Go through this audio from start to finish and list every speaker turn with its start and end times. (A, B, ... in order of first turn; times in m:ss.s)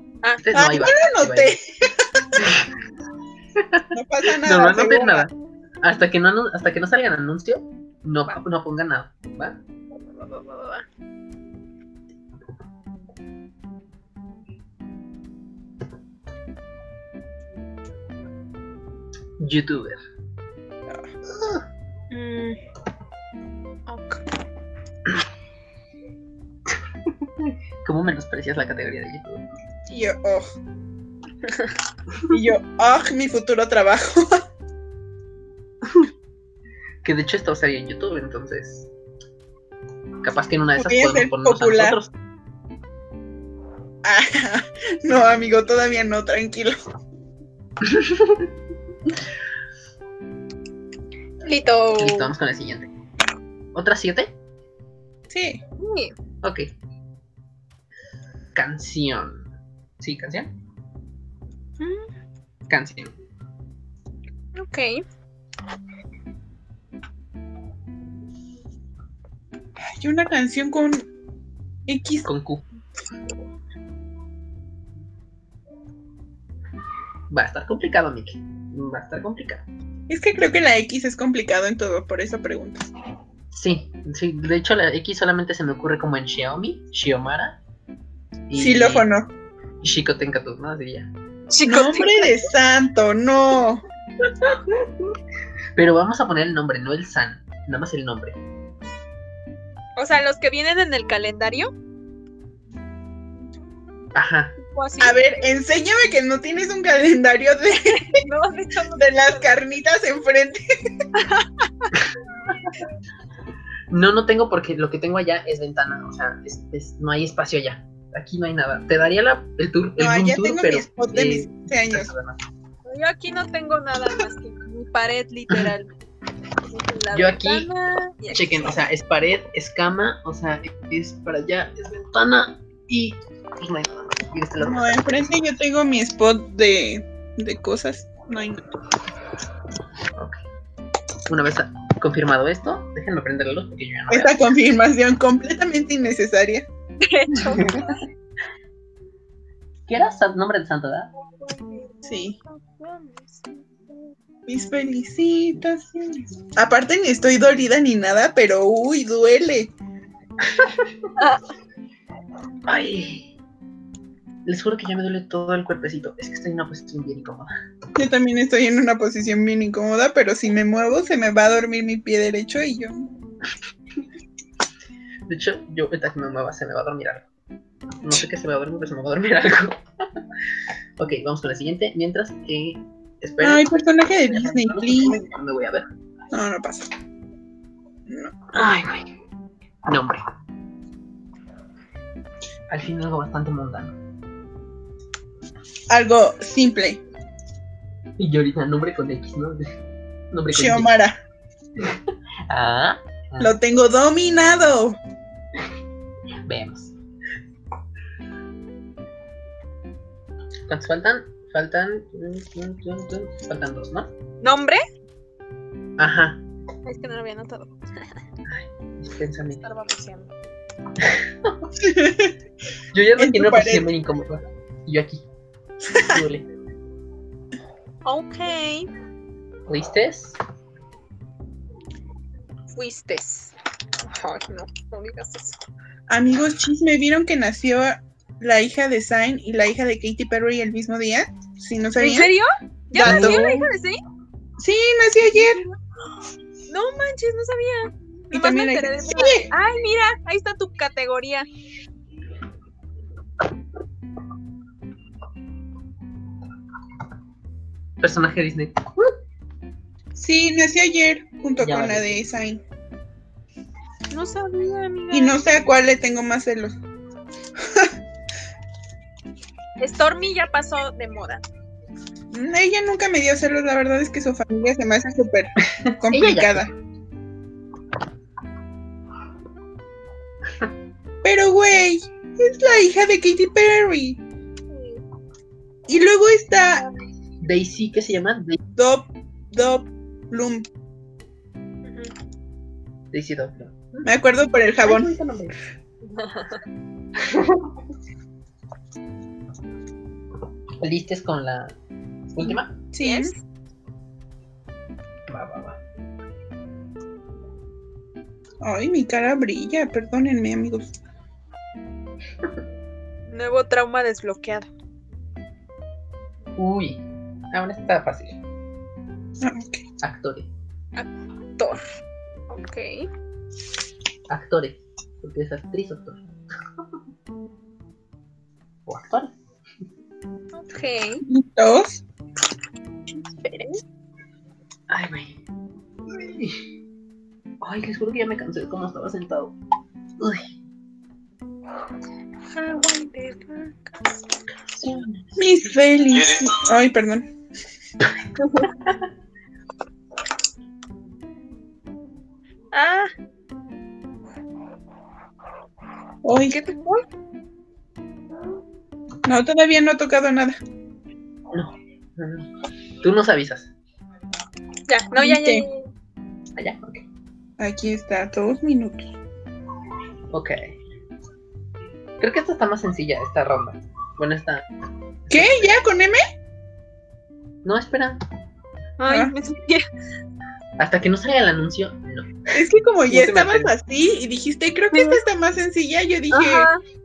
0:00.4-0:01.5 A
0:00.5-0:02.3 B
0:02.4-0:02.7 A
0:03.6-0:03.9 A
0:03.9-0:05.3 B
0:04.4-0:09.6 A
0:10.1-0:10.8 C
0:19.4-0:20.0 A
0:21.3-0:21.6 A
0:22.1-0:22.6 C
0:23.9-0:24.2 C
0:27.1-0:29.4 A
0:29.9-0:30.5 B
0:32.3-0:34.4 B
0:37.0-0:38.9 A
0:40.2-0:42.1 A
0:40.8-0:42.0 B
0:44.0-0:46.8 B
0:47.8-0:48.5 A
0:51.4-0:52.3 C
0:52.0-0:52.9 A
0:53.7-0:54.4 A
0:55.3-0:55.6 B
0:55.8-0:56.1 C
0:56.4-0:56.7 A
0:58.5-0:59.5 A
1:00.0-1:00.5 A
1:01.8-1:02.1 C
1:02.7-1:03.2 A
1:04.6-1:05.0 C
1:09.9-1:11.0 B
1:11.9-1:12.3 B
1:12.3-1:12.6 A
1:17.3-1:19.6 A
1:20.1-1:22.9 B
1:23.5-1:27.6 A
1:28.5-1:29.1 A
1:28.5-1:29.3 B
1:29.8-1:31.1 A
1:31.5-1:32.5 C
1:31.6-1:33.8 B
1:34.2-1:35.2 A
1:35.8-1:38.4 A
1:40.0-1:41.7 C
1:44.1-1:44.6 A
1:44.6-1:45.2 C
1:45.0-1:48.2 B
1:47.9-1:49.6 C
1:49.0-1:50.6 B
1:51.2-1:51.9 C
1:53.9-2:02.4 A
2:00.0-2:02.1 B
2:02.8-2:06.0 C
2:06.7-2:08.7 C
2:07.1-2:07.7 A
2:08.3-2:15.4 A
2:14.6-2:18.6 B
2:21.3-2:24.4 A
2:24.1-2:26.7 B
2:27.0-2:28.0 C
2:29.9-2:31.1 A
2:31.4-2:34.1 C
2:32.0-2:32.4 B
2:34.5-2:39.7 B
2:40.4-2:40.9 A
2:41.2-2:41.4 C
2:42.7-2:43.3 A
2:44.4-2:47.5 A
2:48.0-2:53.1 B
2:55.3-2:57.3 A
2:58.0-2:59.8 A
3:01.0-3:05.9 A
3:03.4-3:05.3 B
3:06.3-3:06.9 B
3:08.5-3:09.1 A
3:09.8-3:10.2 A
3:12.7-3:14.0 A
3:15.9-3:17.0 B
3:18.2-3:19.7 A
3:20.3-3:20.9 A
3:20.5-3:21.2 B
3:21.8-3:23.6 A
3:23.4-3:25.0 B
3:26.5-3:26.9 A
3:30.7-3:34.1 A
3:34.4-3:34.8 C
3:36.0-3:36.4 A
3:36.8-3:38.1 C
3:38.5-3:39.6 A
3:39.6-3:40.3 C
3:41.0-3:41.7 A
3:41.8-3:42.4 B
3:42.9-3:45.2 A
3:43.2-3:43.9 B
3:45.9-3:46.2 B
3:46.1-3:46.5 A
3:48.0-3:48.9 C
3:49.7-3:50.4 A
3:52.7-3:53.5 C
3:54.0-3:55.6 C
3:56.1-4:02.3 B
4:02.0-4:04.0 C
4:02.9-4:03.4 B
4:03.0-4:03.7 A
4:04.6-4:05.6 B
4:05.3-4:05.8 C
4:06.7-4:11.5 C
4:08.3-4:09.5 B
4:18.0-4:19.1 A
4:20.2-4:22.6 B
4:21.6-4:22.2 A
4:24.1-4:25.4 C
4:25.1-4:26.8 B
4:29.8-4:31.4 C
4:32.3-4:36.7 B
4:35.7-4:36.7 A
4:41.2-4:44.2 B
4:44.7-4:45.0 C
4:45.9-4:46.8 B
4:47.4-4:48.6 A
4:48.8-4:50.7 B
4:51.8-4:52.1 C
4:53.1-4:54.1 A
4:54.0-4:55.1 B
4:54.8-4:55.6 A
4:56.1-4:56.6 C
4:57.2-4:57.7 A
5:00.8-5:01.8 A
5:02.3-5:02.7 A
5:02.5-5:03.3 B
5:03.0-5:03.4 C
5:05.3-5:05.8 A
5:08.6-5:10.9 B
5:13.3-5:14.7 C
5:16.6-5:18.4 A
5:19.4-5:19.8 B
5:20.0-5:20.5 A
5:21.0-5:21.8 C
5:22.5-5:23.1 C
5:24.3-5:26.2 A
5:28.9-5:29.3 A
5:30.5-5:31.2 C
5:31.3-5:32.0 B
5:33.2-5:33.8 C
5:34.9-5:35.4 A
5:36.1-5:36.7 A
5:37.6-5:39.5 A
5:40.2-5:40.5 A
5:42.5-5:43.8 C
5:44.7-5:45.4 A
5:45.4-5:47.3 B
5:48.4-5:48.7 C
5:52.7-5:53.1 C
5:56.2-5:56.6 B
5:56.5-5:57.0 C
5:59.2-6:00.6 B
6:01.5-6:02.5 A
6:03.0-6:03.7 A
6:04.9-6:05.9 C
6:05.2-6:05.6 B
6:06.6-6:07.0 A
6:07.6-6:09.1 B
6:10.3-6:10.7 A
6:12.2-6:14.7 A
6:15.3-6:15.7 A
6:15.3-6:16.2 B
6:17.6-6:18.2 A
6:19.0-6:19.8 C
6:19.1-6:19.3 B
6:20.8-6:22.4 A
6:22.5-6:26.7 B
6:23.1-6:23.7 A
6:24.9-6:25.2 C
6:26.3-6:26.8 C